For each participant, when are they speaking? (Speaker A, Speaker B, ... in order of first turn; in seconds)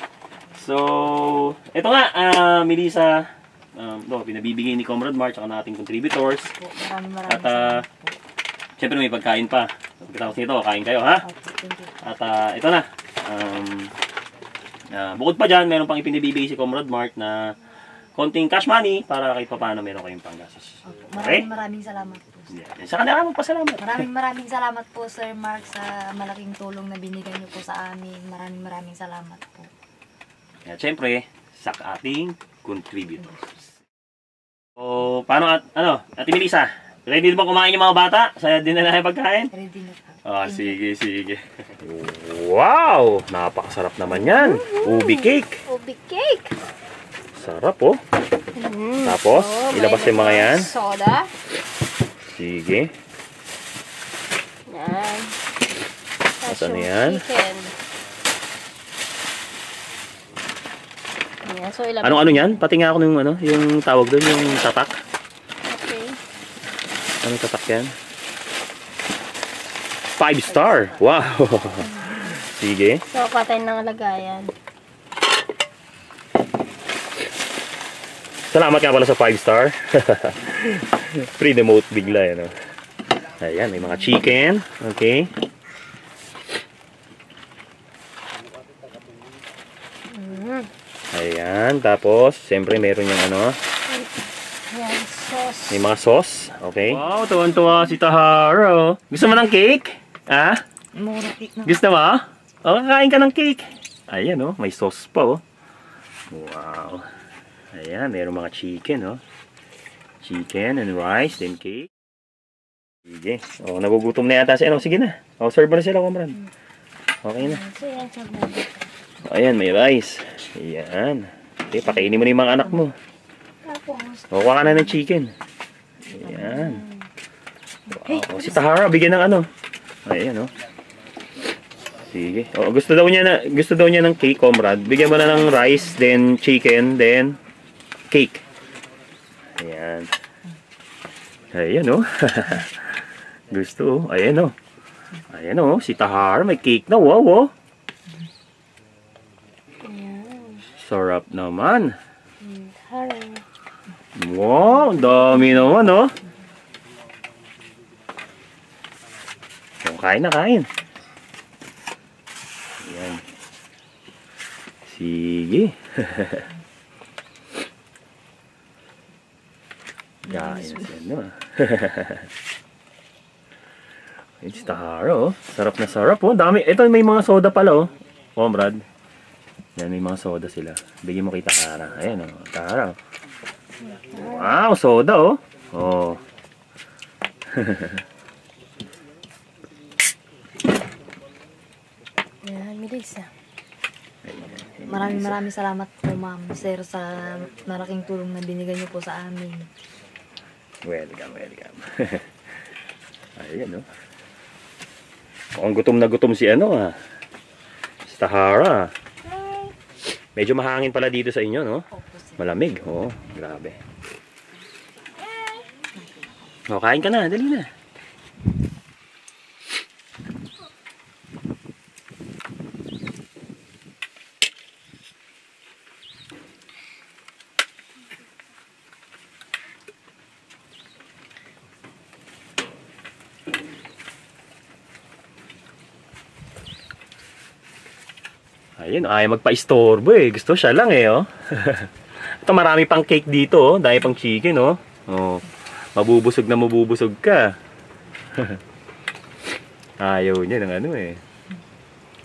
Speaker A: 0.6-6.5, 7.3-7.8, 8.8-11.2, 12.0-13.9, 14.9-17.5, 18.1-21.4, 22.5-24.1, 30.6-33.3, 34.8-39.5, 40.2-45.6, 47.3-48.0, 49.0-50.7, 52.3-52.9, 56.5-57.2, 62.0-64.9, 67.2-67.9, 70.2-73.0, 78.5-82.5, 83.4-85.3, 91.1-93.6, 95.7-100.6, 101.7-105.4, 106.3-107.0, 107.7-109.2, 110.2-111.9, 113.0-116.3, 117.2-117.6, 119.2-122.9, 124.3-125.3, 126.1-126.8, 127.9-129.5, 130.0-130.5, 132.1-137.4, 138.1-138.4, 139.6-140.1, 141.5-144.5, 145.3-147.5, 150.8-151.9, 154.2-156.1, 159.8-160.7, 162.8-163.2, 164.8-166.5, 170.3-172.3, 174.4-178.8, 179.8-182.9, 184.1-186.2, 187.5-188.0, 194.2-195.4, 200.8-202.4, 203.4-203.8, 205.6-206.9, 208.1-208.9, 210.3-211.8, 212.4-213.8, 216.7-217.7, 238.8-247.5, 248.3-248.6, 250.0-251.2
Speaker B: 6.5-8.2, 11.2-12.0, 20.8-22.6, 23.8-29.7, 33.2-33.6, 39.5-40.7, 70.5-71.0, 101.0-101.8, 117.4-118.8, 121.9-122.8, 124.2-124.9, 126.2-126.8, 170.3-170.9, 194.9-199.7, 211.9-212.4, 216.0-216.3
Speaker C: 44.1-46.5, 48.5-51.3, 54.7-55.3, 56.4-57.7, 61.5-62.6, 65.7-66.2, 73.1-74.5, 90.1-90.7, 94.7-95.8, 97.1-97.4, 117.6-118.2, 123.7-124.2, 126.5-127.0, 128.1-128.4, 149.8-150.6, 152.4-153.4, 183.8-184.6, 192.4-193.3, 209.3-209.7